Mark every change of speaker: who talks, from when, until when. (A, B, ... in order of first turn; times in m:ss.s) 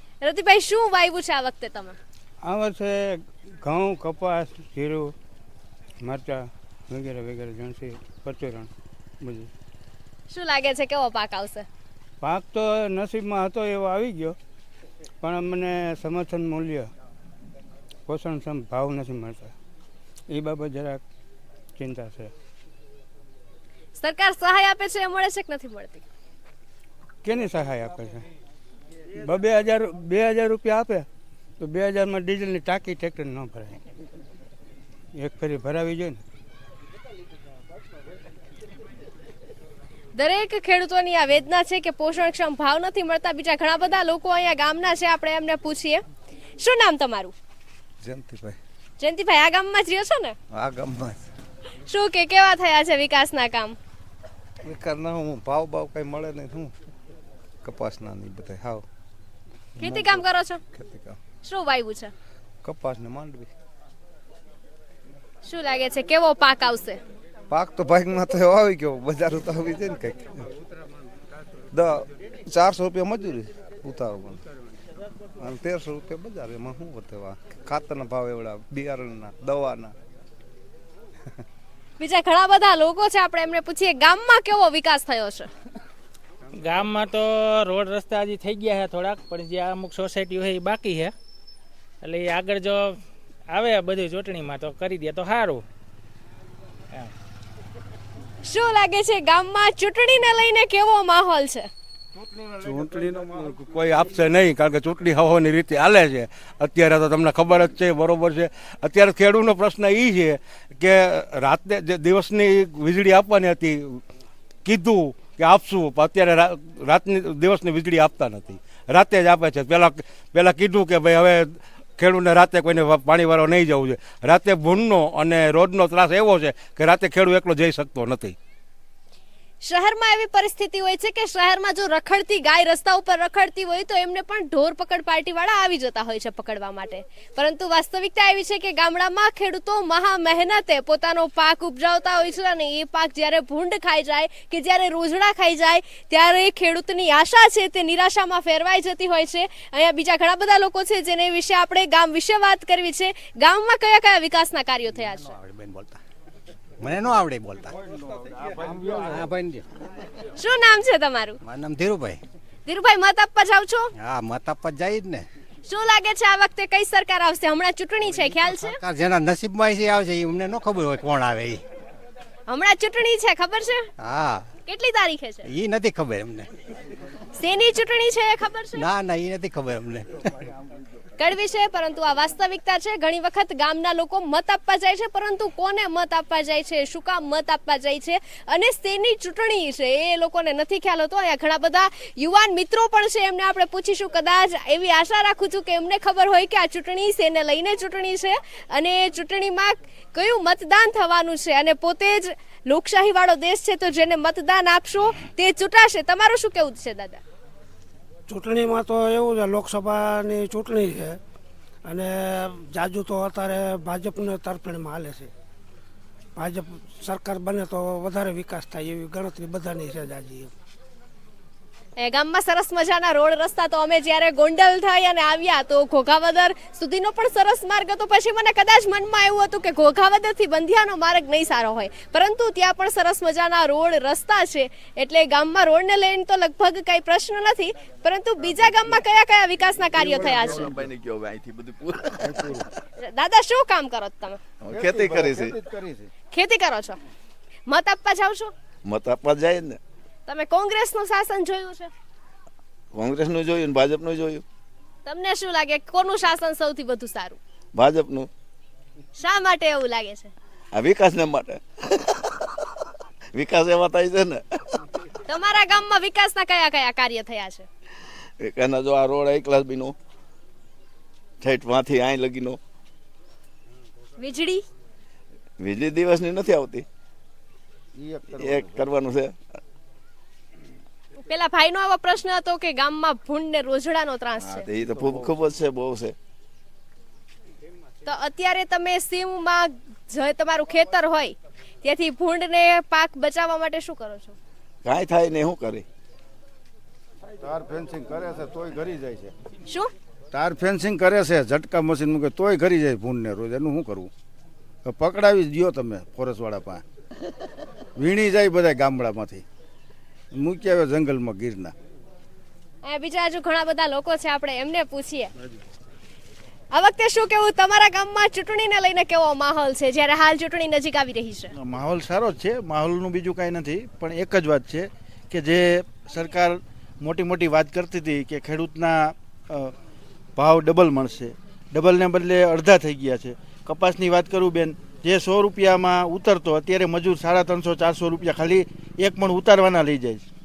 0:00.2-0:02.0 A
0:02.4-0:05.1 B
0:06.0-0:08.7 B
0:09.2-0:09.5 B
0:10.3-0:11.7 A
0:12.2-0:14.4 B
0:15.2-0:16.9 B
0:18.1-0:19.5 B
0:20.3-0:21.0 B
0:21.8-0:22.3 B
0:24.0-0:26.0 A
0:27.2-0:28.2 B
0:29.2-0:31.1 B
0:31.6-0:33.8 B
0:35.2-0:36.2 B
0:40.2-0:46.0 A
0:46.6-0:47.3 A
0:48.0-0:48.6 C
0:49.0-0:50.4 A
0:50.5-0:51.2 C
0:51.9-0:53.8 A
0:54.6-0:56.7 C
0:57.6-0:58.8 C
0:59.8-1:00.6 A
0:59.8-1:01.2 C
1:01.4-1:02.1 A
1:02.6-1:03.5 C
1:05.4-1:07.0 A
1:07.5-1:10.4 C
1:11.7-1:14.4 C
1:15.4-1:19.9 C
1:22.0-1:25.5 A
1:26.6-1:31.1 D
1:32.0-1:35.6 D
1:38.4-1:41.7 A
1:42.6-1:54.0 E
1:42.6-1:43.2 C
1:54.6-2:08.4 E
2:09.6-2:35.3 A
2:35.3-2:36.0 F
2:36.8-2:37.8 F
2:38.6-2:39.1 C
2:39.1-2:39.6 F
2:40.4-2:41.4 A
2:41.4-2:42.2 F
2:42.7-2:43.9 A
2:44.0-2:45.3 F
2:45.7-2:48.8 A
2:48.2-2:51.6 F
2:52.5-2:53.9 A
2:54.0-2:54.5 F
2:54.7-2:55.5 A
2:55.4-2:56.5 F
2:57.4-2:58.9 A
2:58.8-3:00.5 F
3:01.2-3:27.2 A
3:28.3-3:31.2 G
3:31.9-3:35.3 G
3:36.4-3:40.5 G
3:42.0-4:00.8 A
4:00.0-4:02.4 H
4:00.3-4:00.6 C
4:02.2-4:02.7 C
4:03.0-4:04.4 A
4:04.6-4:05.6 H
4:04.7-4:06.1 C
4:06.3-4:07.0 A
4:07.7-4:08.5 A
4:08.8-4:09.8 H
4:10.3-4:11.9 A
4:12.9-4:14.4 H
4:15.0-4:17.4 A
4:17.8-4:18.3 H
4:19.2-4:20.3 A
4:20.7-4:22.2 H
4:23.4-4:24.4 H
4:25.3-4:27.7 A
4:28.4-4:30.0 H
4:31.4-4:32.6 H
4:34.2-4:34.6 A
4:35.6-4:36.8 H
4:38.0-4:38.9 C
4:38.4-4:39.3 H
4:41.2-4:44.7 A
4:44.4-4:46.2 H
4:48.0-4:54.4 A
4:54.8-4:55.8 H
4:57.4-4:59.3 C
5:00.3-5:04.1 C
5:05.0-5:06.8 C
5:08.0-5:09.4 C
5:10.4-5:11.7 C
5:12.8-5:15.3 A
5:16.7-5:21.5 A
5:21.6-5:29.7 I
5:30.4-5:40.3 I